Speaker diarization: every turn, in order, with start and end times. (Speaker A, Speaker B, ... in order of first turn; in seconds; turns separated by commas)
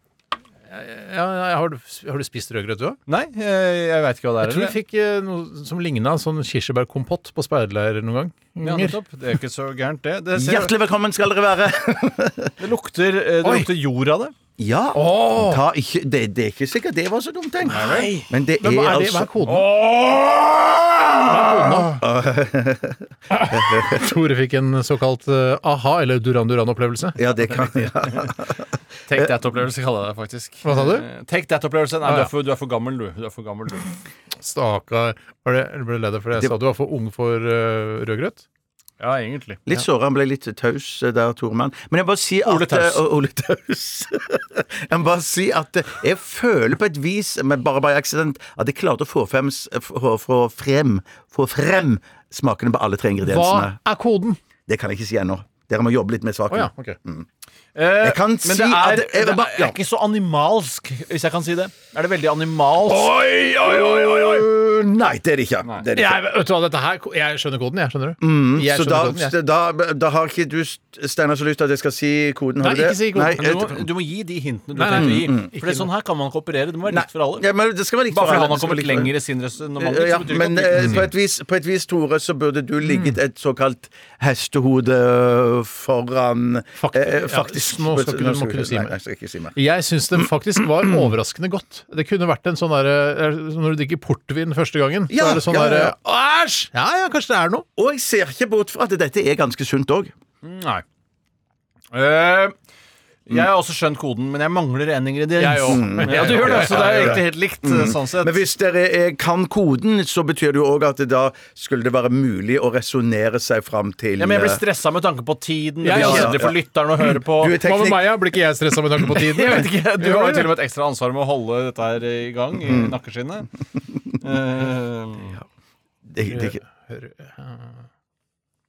Speaker A: 0.7-3.0, Speaker B: 3.1-4.8, Speaker A: 4.4-9.0, Speaker B: 8.6-10.7, Speaker C: 10.3-12.5, Speaker B: 12.6-14.3, Speaker C: 14.6-24.1, Speaker A: 14.9-15.6, Speaker B: 17.7-18.2, Speaker A: 18.6-19.7, Speaker A: 21.2-22.0, Speaker A: 23.3-27.2, Speaker C: 27.2-28.6, Speaker B: 29.1-33.9, Speaker A: 30.6-31.1, Speaker A: 34.4-38.5, Speaker B: 39.0-39.6, Speaker C: 39.7-53.8, Speaker B: 42.5-43.0, Speaker A: 53.2-54.4, Speaker C: 54.7-57.3, Speaker A: 56.5-57.0, Speaker B: 57.8-63.3, Speaker C: 58.0-59.8, Speaker C: 62.9-66.2, Speaker A: 65.9-69.3, Speaker C: 68.2-73.8, Speaker A: 72.6-73.6, Speaker B: 73.3-77.5, Speaker A: 74.8-75.9, Speaker C: 74.9-75.5, Speaker C: 76.9-79.1, Speaker B: 78.1-81.0, Speaker C: 79.8-89.6, Speaker A: 80.8-81.0, Speaker A: 82.8-83.2, Speaker A: 86.8-89.0, Speaker A: 89.5-97.7, Speaker C: 95.1-96.0, Speaker C: 97.8-100.1, Speaker B: 100.4-100.8, Speaker B: 101.9-102.5, Speaker B: 103.3-108.4, Speaker A: 105.4-107.2, Speaker C: 105.7-114.6, Speaker B: 114.2-117.6, Speaker A: 115.8-116.5, Speaker C: 115.9-118.2, Speaker A: 117.6-120.5, Speaker B: 119.1-123.5, Speaker C: 122.7-123.0, Speaker B: 124.2-125.4, Speaker C: 126.1-126.6, Speaker A: 126.2-127.8